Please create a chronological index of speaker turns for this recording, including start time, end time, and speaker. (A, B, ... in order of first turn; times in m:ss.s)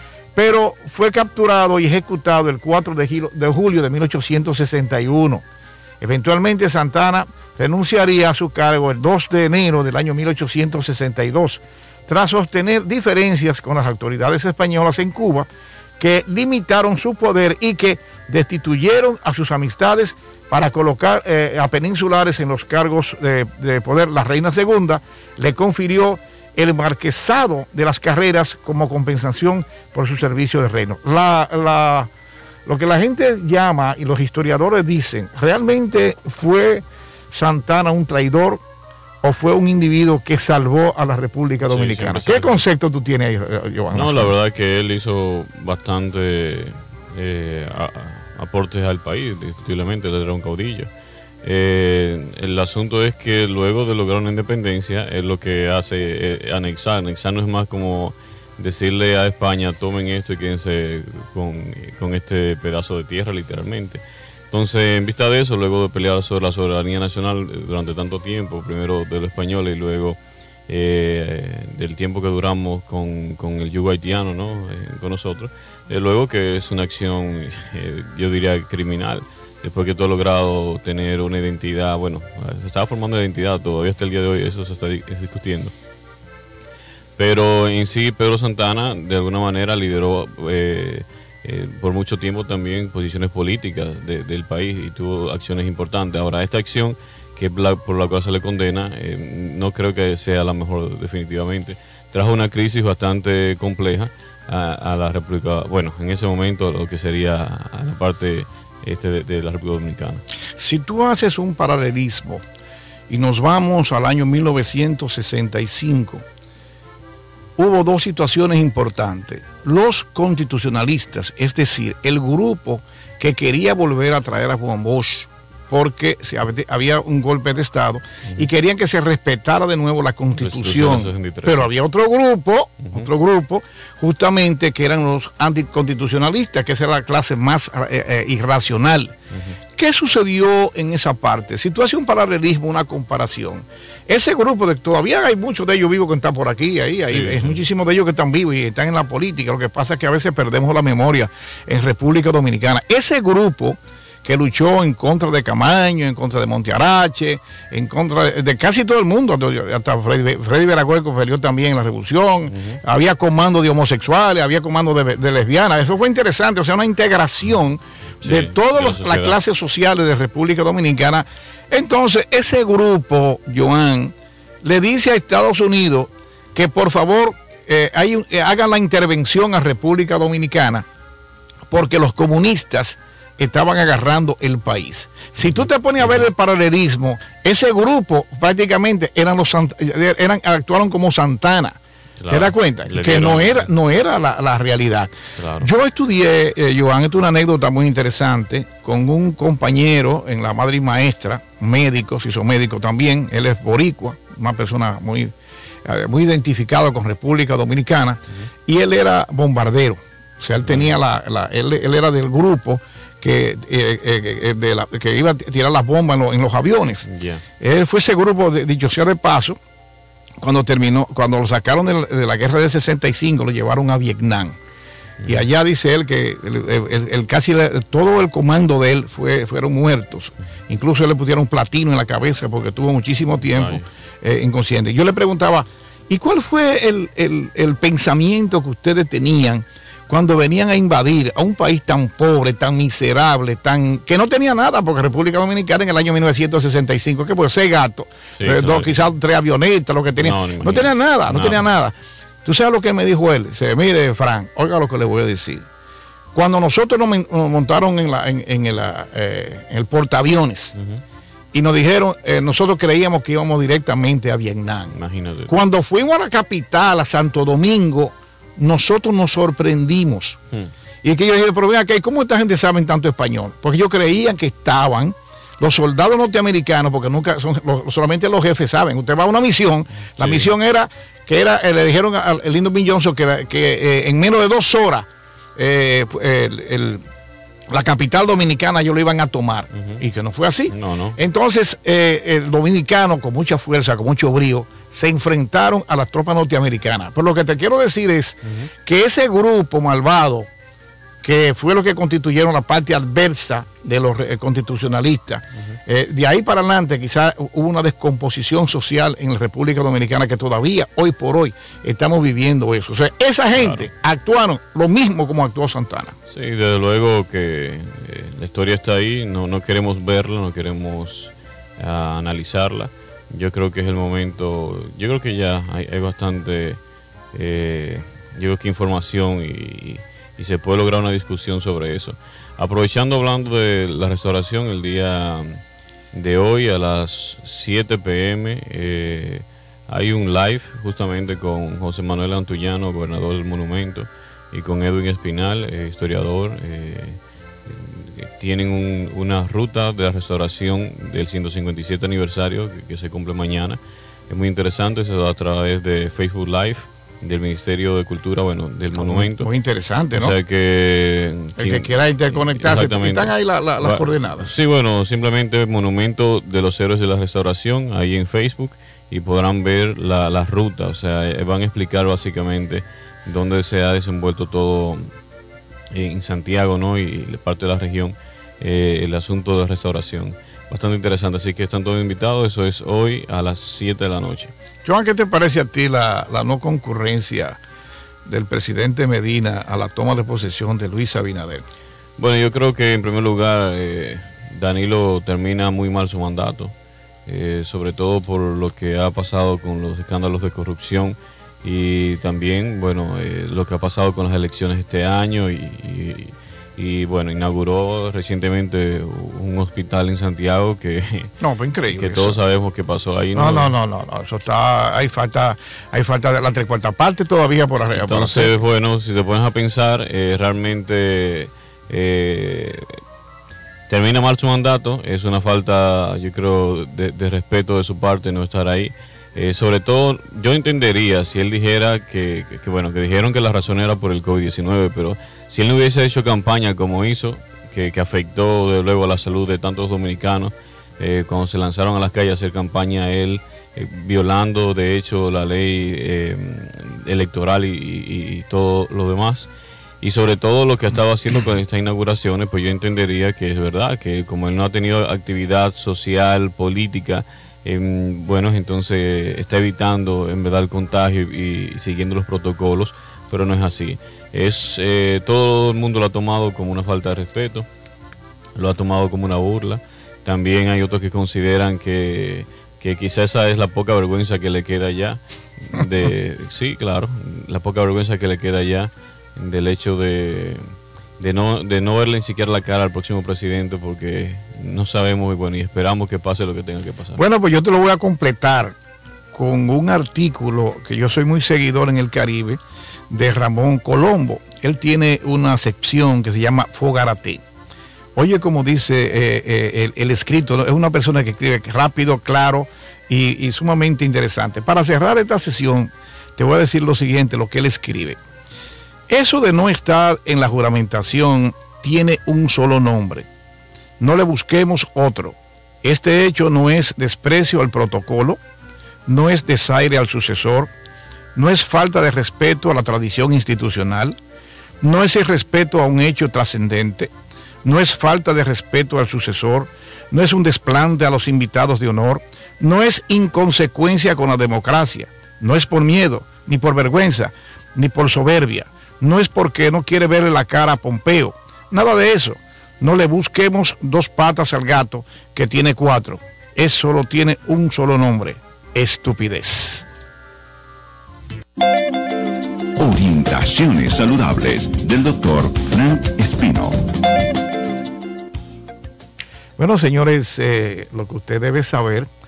0:00.3-0:05.4 A
0:06.0-0:15.5 A
0:16.0-0:32.1 A
0:32.6-0:38.6 A
0:39.2-0:44.3 A
0:41.6-0:42.6 B
0:43.9-0:50.9 B
0:51.4-1:10.2 B
1:10.7-1:25.7 B
1:27.2-1:50.2 B
1:50.6-1:52.4 A
1:53.1-1:56.2 A
1:57.6-2:19.1 A
2:10.4-2:11.7 B
2:19.8-3:00.8 A
2:27.1-2:27.6 B
2:42.5-2:42.8 B
2:48.2-2:49.4 B
3:01.7-3:11.8 A
3:12.2-3:13.7 B
3:12.3-3:25.3 A
3:15.4-3:15.7 B
3:25.8-3:37.0 A
3:30.6-3:30.9 B
3:37.0-3:37.4 B
3:37.6-3:39.6 A
3:40.4-3:44.6 A
3:45.2-3:45.4 B
3:45.2-4:11.9 A
3:53.5-3:53.8 B
4:08.4-4:09.0 B
4:10.2-4:11.6 B
4:12.4-4:15.6 A
4:16.3-4:20.7 A
4:20.8-4:21.0 B
4:21.5-4:25.0 A
4:24.9-4:25.5 B
4:25.5-4:30.4 A
4:31.0-4:47.0 A
4:40.2-4:40.5 B
4:47.7-5:00.5 A
4:49.7-4:50.0 B
4:50.7-4:51.2 B
5:01.2-5:16.1 A
5:13.6-5:13.9 B
5:16.3-5:26.8 B
5:27.3-5:35.6 B
5:36.1-5:59.5 B
5:58.9-6:00.4 A
6:00.1-6:15.1 B
6:01.6-6:04.5 A
6:15.9-6:24.5 B
6:24.8-6:27.6 A
6:28.2-6:31.6 A
6:32.2-6:36.7 B
6:37.2-6:51.4 B
6:51.4-6:52.4 A
6:51.9-6:53.7 B
6:53.4-6:58.6 A
6:57.9-7:03.0 B
7:03.9-7:29.5 B
7:30.0-7:47.7 B
7:48.5-8:07.2 B
8:07.2-8:08.7 A
8:09.3-8:12.6 A
8:13.1-8:17.4 A
8:18.2-8:28.2 A
8:29.1-8:33.3 A
8:34.0-8:38.4 A
8:39.1-8:40.7 A
8:41.4-8:44.2 A
8:44.8-8:47.1 A
8:47.6-9:09.8 A
9:12.8-9:16.8 C
9:19.6-9:22.1 A